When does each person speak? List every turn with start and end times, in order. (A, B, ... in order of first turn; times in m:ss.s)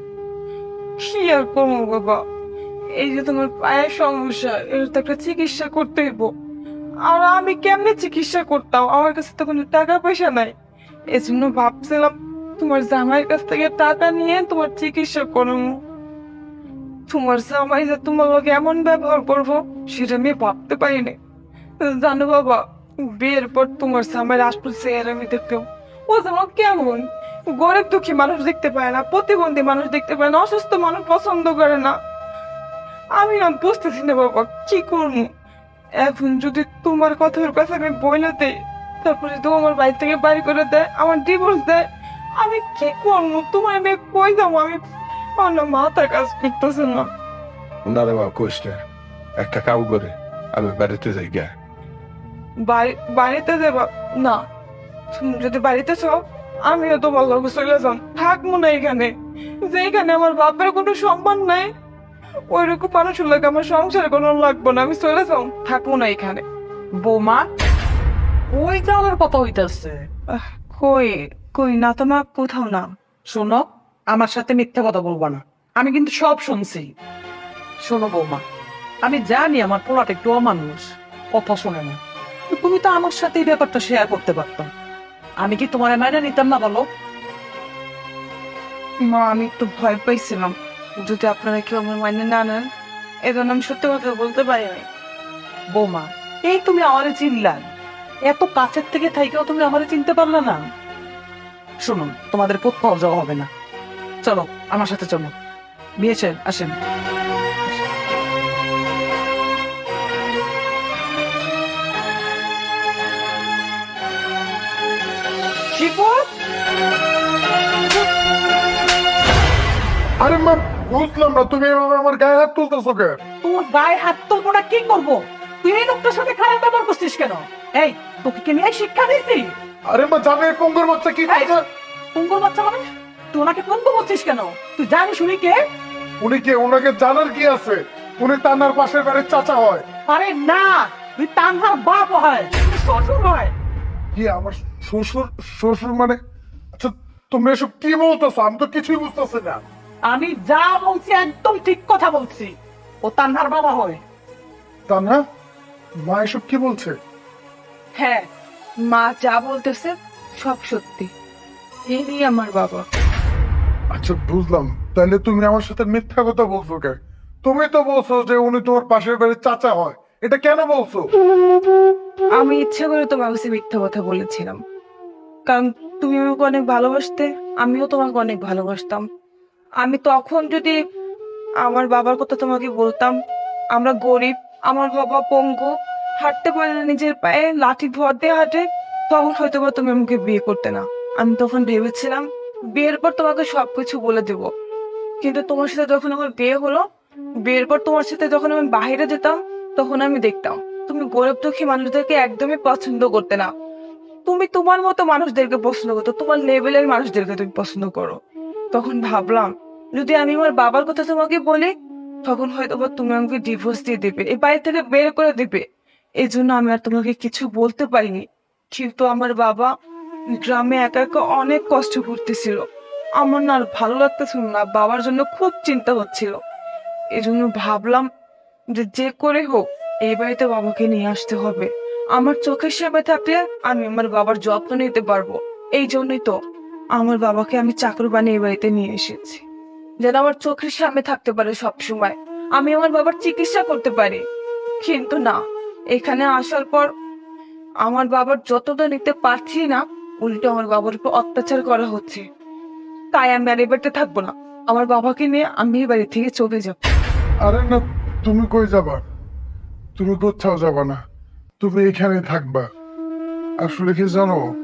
0:01.0-0:02.2 A
0:03.0-0:06.4 A
0:07.1-0:10.5 A
0:11.1-0:15.8 A
0:17.1-0:21.2 A
0:21.8-0:32.0 A
0:33.2-0:35.3 A
0:36.0-0:41.9 A
0:42.4-0:44.8 A
0:45.4-0:47.1 A
0:47.8-0:48.8 B
0:49.4-0:51.5 B
0:52.6-0:54.4 A
0:55.1-1:01.7 A
1:02.5-1:06.4 A
1:07.0-1:07.5 C
1:08.5-1:10.1 C
1:10.3-1:12.9 A
1:13.3-1:16.9 C
1:17.8-1:18.4 C
1:19.0-1:22.0 C
1:22.5-1:24.7 C
1:25.4-1:26.9 C
1:29.0-1:32.7 A
1:33.2-1:34.9 A
1:35.7-1:37.7 C
1:38.2-1:40.6 C
1:41.8-1:43.5 C
1:44.2-1:45.3 C
1:46.0-1:46.8 C
1:55.8-1:56.3 A
2:00.2-2:03.2 D
2:03.4-2:09.6 C
2:09.9-2:11.6 D
2:11.3-2:11.6 C
2:12.1-2:15.7 C
2:16.2-2:19.9 D
2:20.1-2:23.5 C
2:24.1-2:26.2 D
2:26.8-2:29.6 D
2:30.1-2:34.0 C
2:34.9-2:35.2 D
2:36.0-2:37.0 D
2:38.0-2:38.3 A
2:38.9-2:41.1 A
2:41.9-2:42.8 A
2:43.9-2:51.0 D
2:52.4-2:54.6 A
2:55.5-2:59.1 A
2:59.8-3:00.8 A
3:01.6-3:03.2 A
3:03.8-3:14.5 A
3:15.2-3:16.8 A
3:17.4-3:23.5 A
3:24.3-3:28.2 A
3:28.7-3:31.7 A
3:32.2-3:35.6 A
3:36.2-3:39.7 A
3:40.4-3:42.6 A
3:43.2-3:46.3 A
3:47.2-3:48.1 A
3:48.7-3:56.3 A
3:57.0-3:59.4 A
4:00.0-4:04.2 A
4:04.8-4:05.4 A
4:05.9-4:06.9 A
4:07.8-4:12.3 A
4:13.1-4:16.8 A
4:17.4-4:19.0 D
4:20.0-4:21.0 D
4:21.6-4:22.7 D
4:23.6-4:24.4 D